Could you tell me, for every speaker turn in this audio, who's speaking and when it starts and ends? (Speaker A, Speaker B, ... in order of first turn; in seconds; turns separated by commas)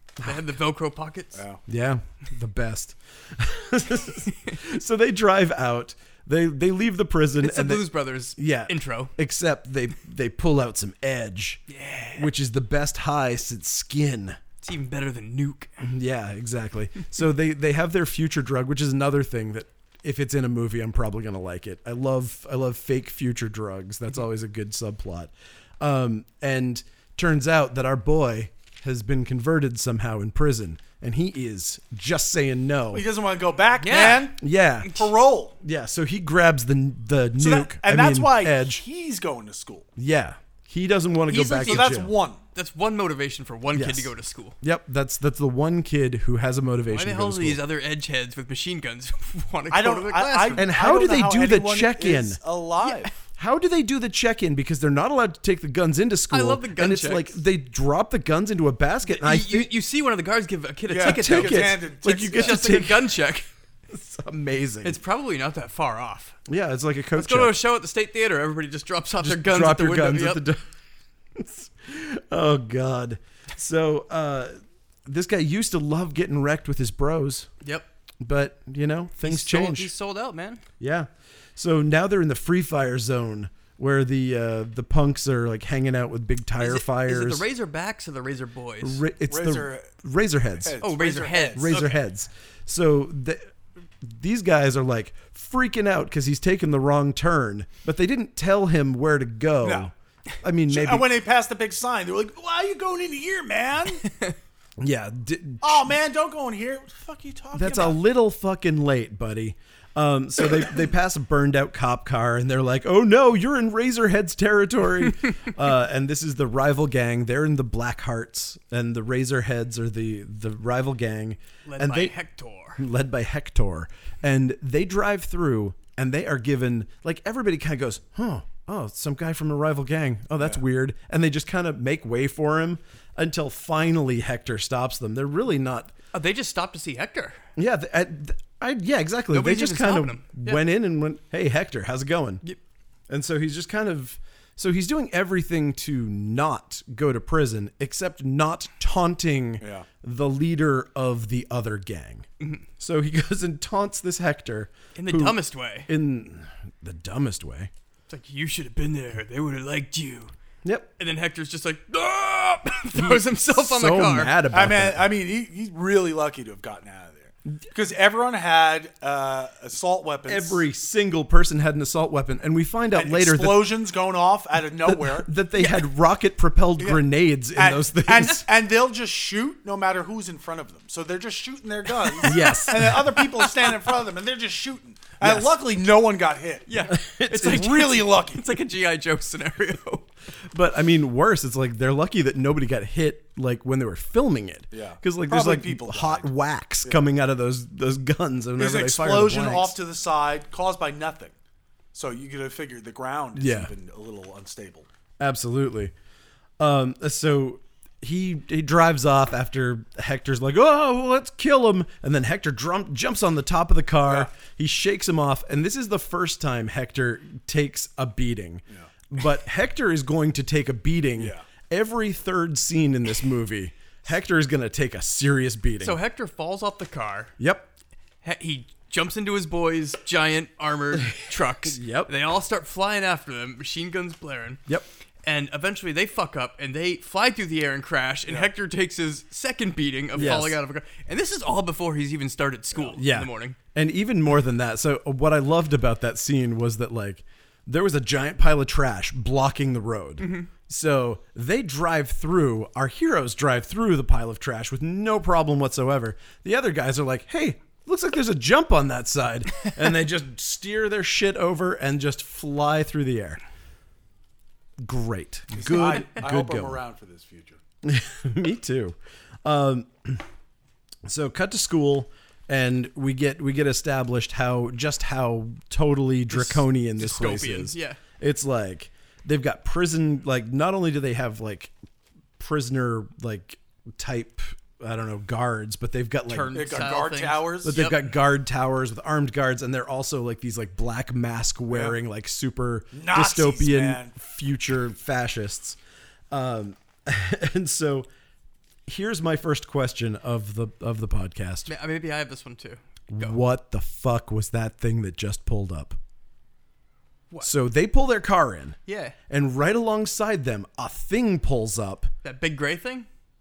Speaker A: 0.2-1.4, Speaker B: 1.3-1.6, Speaker C: 1.7-11.6, Speaker A: 7.4-9.1, Speaker A: 11.7-12.3, Speaker C: 12.1-14.4, Speaker A: 14.6-15.7, Speaker C: 15.8-33.0, Speaker B: 32.9-35.6, Speaker A: 33.8-34.3, Speaker C: 34.4-35.0, Speaker C: 35.6-38.8, Speaker B: 37.4-39.9, Speaker C: 40.0-42.1, Speaker A: 41.3-42.0, Speaker B: 41.5-42.4, Speaker A: 42.5-44.6, Speaker C: 43.7-47.6, Speaker A: 46.9-50.6, Speaker B: 49.7-53.1, Speaker C: 50.5-52.4, Speaker A: 52.8-53.1, Speaker C: 53.3-59.7, Speaker A: 56.3-57.4, Speaker A: 59.1-63.5, Speaker B: 60.9-62.7, Speaker C: 61.0-63.3, Speaker C: 63.9-65.0, Speaker A: 64.8-66.3, Speaker C: 66.5-67.6, Speaker A: 67.1-70.4, Speaker C: 69.2-70.6, Speaker C: 71.3-77.5, Speaker C: 78.2-79.9, Speaker A: 79.2-80.6, Speaker C: 80.8-87.4, Speaker A: 86.6-89.0, Speaker C: 88.8-90.8, Speaker B: 89.3-89.9, Speaker B: 90.6-92.0, Speaker A: 90.8-91.9, Speaker C: 91.5-93.5, Speaker C: 94.0-101.1, Speaker B: 99.6-99.9, Speaker B: 100.7-104.0, Speaker A: 104.0-104.3, Speaker C: 104.8-105.9, Speaker B: 105.6-108.0, Speaker C: 107.5-122.1, Speaker A: 121.7-122.8, Speaker C: 122.8-135.9, Speaker A: 136.1-137.4, Speaker C: 137.6-142.4, Speaker A: 139.3-140.6, Speaker C: 143.1-152.3, Speaker B: 149.6-149.9, Speaker C: 152.8-157.7, Speaker A: 154.9-155.9, Speaker A: 158.1-160.3, Speaker C: 160.6-160.9, Speaker A: 161.0-164.3, Speaker C: 162.9-165.1, Speaker B: 164.5-170.6, Speaker C: 170.3-173.7, Speaker B: 172.9-175.3, Speaker C: 174.8-178.4, Speaker B: 176.8-186.7, Speaker A: 182.1-182.8, Speaker C: 182.2-183.2, Speaker C: 185.2-185.5, Speaker A: 186.7-190.1, Speaker C: 186.9-187.7, Speaker B: 187.3-188.4, Speaker C: 190.5-199.8, Speaker B: 194.7-196.3, Speaker B: 198.6-201.3, Speaker B: 201.9-204.9, Speaker C: 203.3-203.7, Speaker C: 205.2-205.9, Speaker C: 206.6-226.0, Speaker B: 214.0-214.3, Speaker B: 221.2-221.4, Speaker A: 225.8-227.3, Speaker C: 227.4-227.7, Speaker A: 228.2-234.6, Speaker C: 231.7-232.1, Speaker A: 235.2-243.6, Speaker C: 240.1-240.6, Speaker C: 242.9-263.4, Speaker A: 250.2-250.5, Speaker C: 264.8-266.8, Speaker B: 265.5-267.6, Speaker C: 267.8-270.2, Speaker C: 271.1-281.7, Speaker A: 276.3-278.0, Speaker C: 282.4-286.6, Speaker A: 286.3-288.0, Speaker B: 286.5-287.8, Speaker C: 287.6-295.8, Speaker B: 292.9-294.1, Speaker C: 296.3-298.1, Speaker C: 298.9-301.7, Speaker A: 301.7-303.4, Speaker C: 303.1-306.0, Speaker C: 307.4-308.8, Speaker A: 308.9-309.1, Speaker C: 309.3-312.1, Speaker A: 312.2-313.1